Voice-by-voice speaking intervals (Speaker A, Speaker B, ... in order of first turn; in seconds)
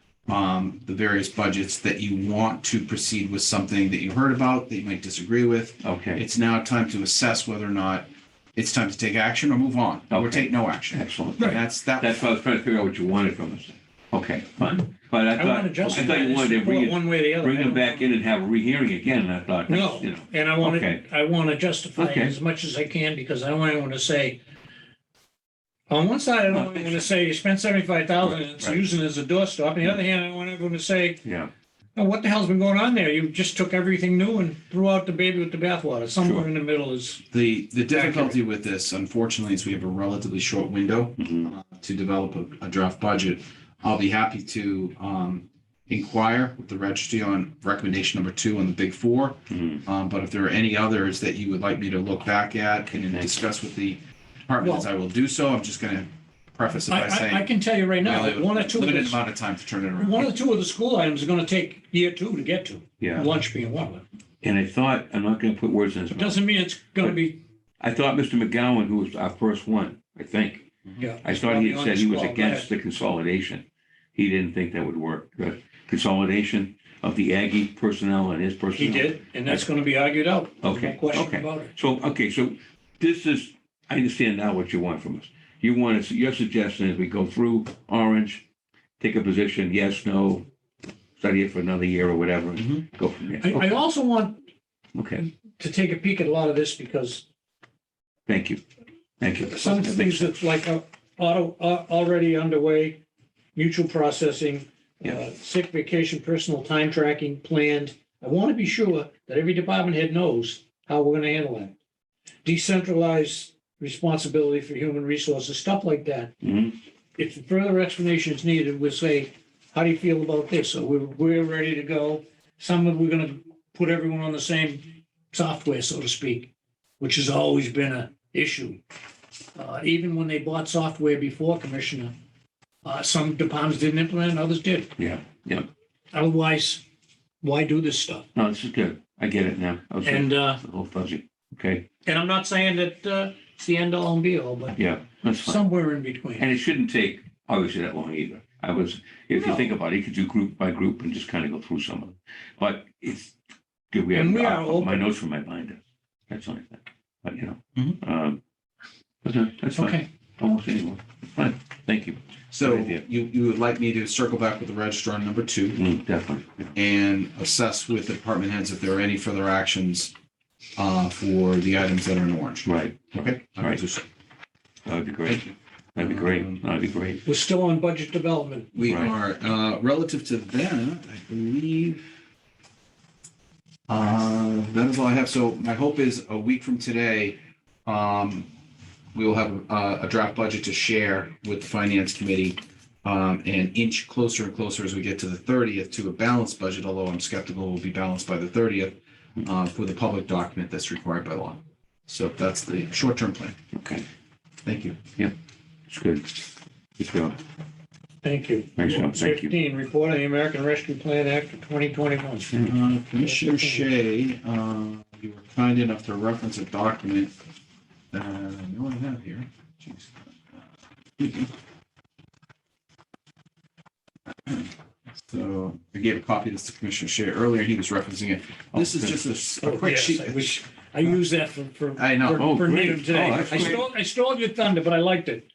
Speaker A: 0.3-12.2, 37.3-57.5, 58.0-60.3, 162.5-165.8, 166.8-170.1, 170.8-174.0, 176.0-176.6, 178.7-182.1, 183.9-188.5, 189.1-203.6, 204.7-205.0, 212.6-217.3, 218.1-220.2, 221.2-221.5, 224.5-230.6, 232.0-232.6
Speaker B: 5.8-6.2, 10.1-21.0, 22.0-22.4, 26.5-27.1, 28.2-28.8, 31.2-31.5, 36.2-36.5, 41.2-41.5, 49.5-49.8, 63.0-63.3, 64.4-66.4, 67.8-70.7, 71.2-73.6, 74.2-79.7, 80.6-88.4, 89.0-90.5, 91.2-93.7, 95.0-95.3, 98.3-98.6, 99.2-100.4, 116.4-116.8, 135.0-135.7, 138.3-141.9, 144.7-145.6, 146.4-153.3, 153.9-158.4, 159.2-163.0, 165.7-166.7, 172.7-173.8, 174.9-177.2, 178.8-179.1, 203.7-204.1, 205.9-206.4, 207.0-207.4, 208.8-209.5, 228.7-229.2, 232.4-233.9
Speaker C: 15.3-18.1, 19.7-24.4, 25.9-31.2, 32.0-37.2, 37.9-38.3, 54.6-54.9, 56.9-59.2, 60.0-64.0, 66.1-67.4, 71.0-72.7, 78.8-81.7, 93.4-94.4, 95.6-97.2, 99.5-103.0, 103.5-111.8, 112.5-116.3, 117.2-128.8, 129.6-132.1, 132.8-134.9, 136.1-136.8, 137.4-138.3, 140.0-140.6, 142.1-144.8, 145.3-146.5, 149.4-149.7, 154.1-155.1, 159.7-160.1, 177.2-178.7, 208.2-212.5, 213.2-213.9, 229.6-235.5